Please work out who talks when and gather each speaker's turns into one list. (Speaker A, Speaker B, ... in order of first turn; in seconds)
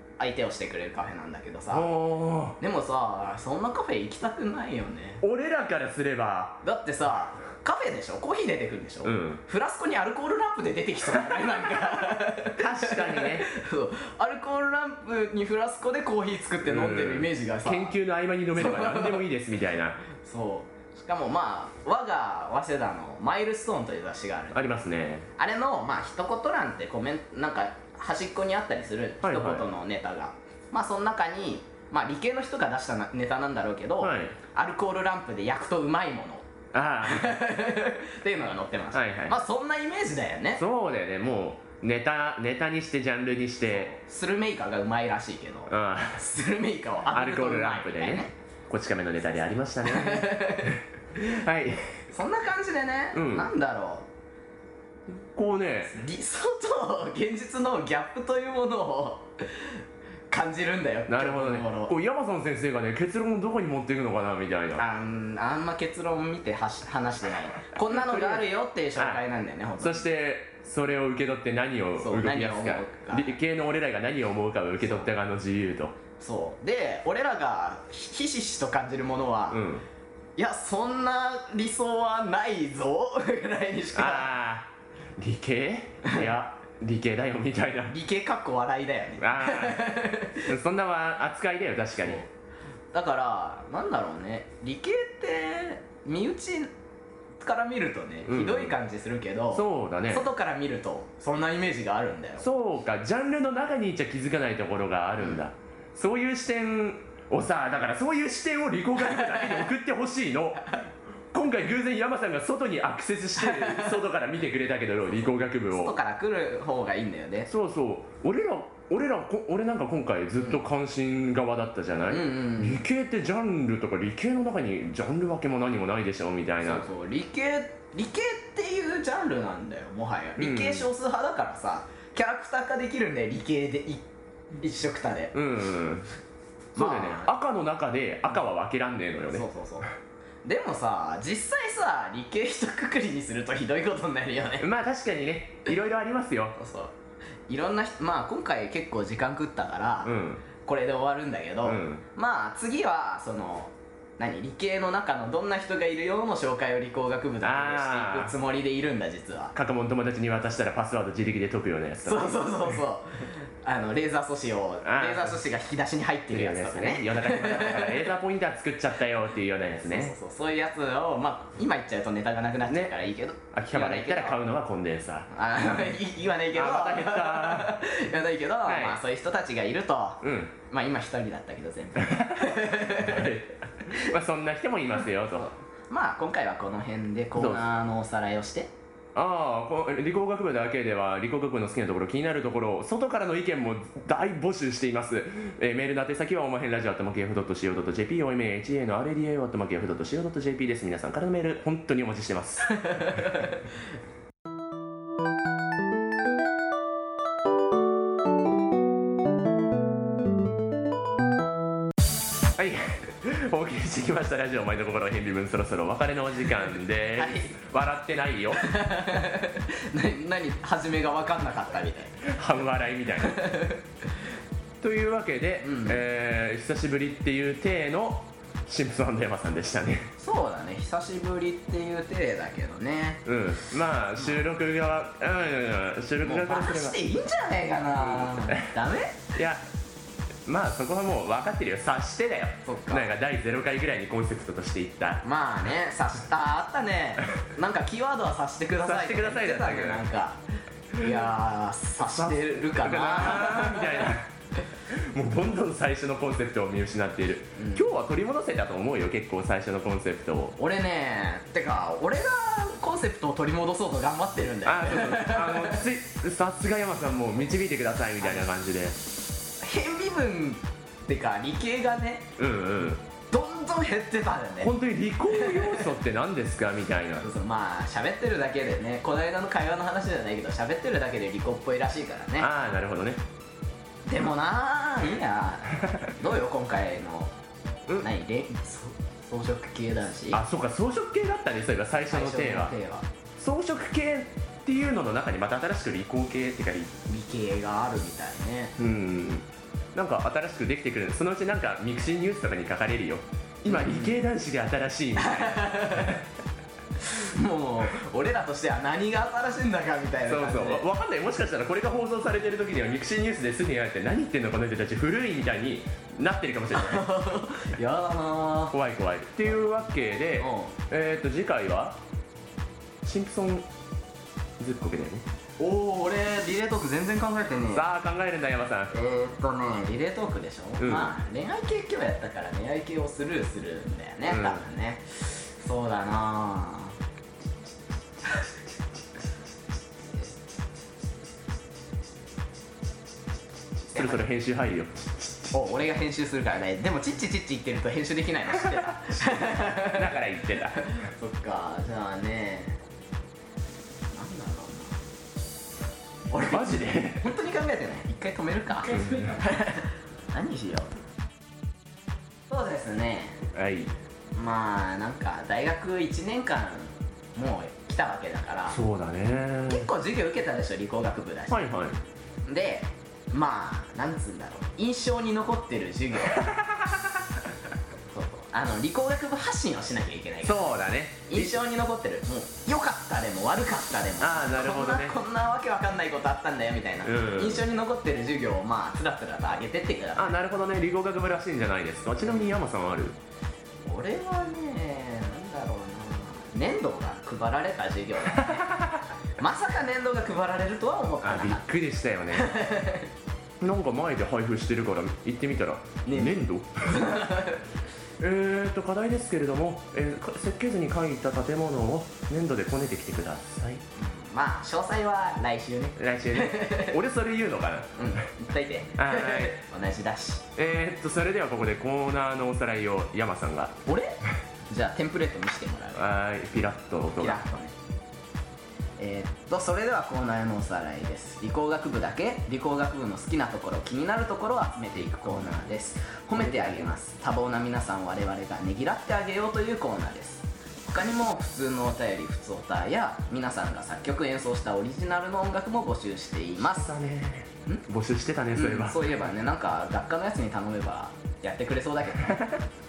Speaker A: 0.2-1.9, 2.6-5.2, 6.6-18.0, 18.6-19.3, 20.1-24.6, 25.4-36.5, 37.0-40.6, 43.7-48.3, 49.8-50.8, 52.1-54.1, 55.9-59.7, 60.3-61.9, 64.8-70.0, 72.0-73.3, 74.8-75.1, 76.2-79.6, 80.4-84.3, 87.9-90.5, 92.9-96.7, 97.4-102.5, 109.0-109.7, 113.4-114.0, 115.7-117.5, 122.1-122.8, 126.6-134.0, 134.6-135.4, 136.8-137.3, 139.3-139.9, 140.4-144.7, 146.6-146.9, 147.5-159.6, 162.1-168.1, 169.9-174.4, 175.3-183.4, 185.4-188.7, 202.8-203.6, 217.2-217.6, 218.6-222.3, 223.2-223.8, 225.6-226.0, 230.2-233.2, 236.2-239.3, 242.7-243.1, 245.2-250.4, 250.9-254.1, 257.6-257.9, 260.6-265.9, 269.6-272.4, 273.3-274.7, 275.3-275.9, 277.2-282.5, 284.1-287.3, 288.0-290.4, 292.1-293.1, 297.1-298.8, 303.7-304.2, 305.2-306.2, 307.0-310.9, 316.7-318.8, 320.4-320.7, 325.6-327.9, 328.9-337.0, 343.9-344.2, 345.5-352.8, 354.1-355.0, 356.3-360.9, 362.5-363.4, 364.4-368.8, 369.7-371.6, 372.5-376.4, 378.1-390.4, 393.9-398.7, 399.4-401.6, 402.3-403.1, 406.1-407.6, 414.0-417.0, 418.0-420.5, 423.9-426.0, 427.2-427.7, 429.0-446.9, 448.6-452.5
Speaker B: 1.7-2.6, 5.2-6.6, 9.0-9.4, 11.3-13.5, 16.6-20.0, 24.5-25.3, 29.2-29.7, 34.0-34.4, 36.7-37.4, 38.9-39.4, 40.6-43.9, 45.7-46.2, 47.1-52.0, 53.1-53.5, 55.1-56.0, 61.1-64.8, 67.9-68.5, 69.0-69.2, 69.8-76.0, 79.5-79.8, 83.9-88.0, 89.2-92.3, 98.3-98.8, 99.5-100.3, 102.4-110.8, 111.3-116.0, 117.5-126.9, 130.4-130.9, 135.3-136.1, 136.8-139.5, 144.6-146.6, 150.0-150.4, 151.6-152.0, 157.4-158.3, 159.6-162.8, 164.8-165.4, 166.3-170.2, 172.7-173.0, 173.5-175.3, 176.5-177.8, 178.7-179.0, 180.2-180.5, 182.0-185.5, 187.4-187.6, 189.2-203.3, 212.6-218.7, 222.2-223.4, 224.8-230.1, 233.3-237.0, 238.0-238.7, 239.3-239.6, 240.4-245.2, 248.8-250.1, 252.1-254.3, 254.9-260.6, 264.6-269.0, 272.4-273.0, 274.6-277.3, 282.4-283.2, 290.3-292.8, 293.4-296.9, 298.8-306.2, 310.3-317.1, 318.7-322.0, 323.0-323.7, 324.6-325.2, 327.7-328.9, 330.8-331.1, 334.3-334.6, 343.9-345.3, 349.1-350.9, 356.5-357.3, 358.9-359.4, 363.5-363.9, 368.7-369.9, 371.5-372.0, 376.4-377.1, 380.4-381.6, 384.2-385.2, 387.0-387.6, 390.2-393.2, 398.4-399.0, 401.2-402.5, 403.6-407.1, 408.2-413.8, 416.0-418.0, 419.0-419.5, 420.6-423.8, 426.0-427.4, 436.4-436.9, 446.6-449.1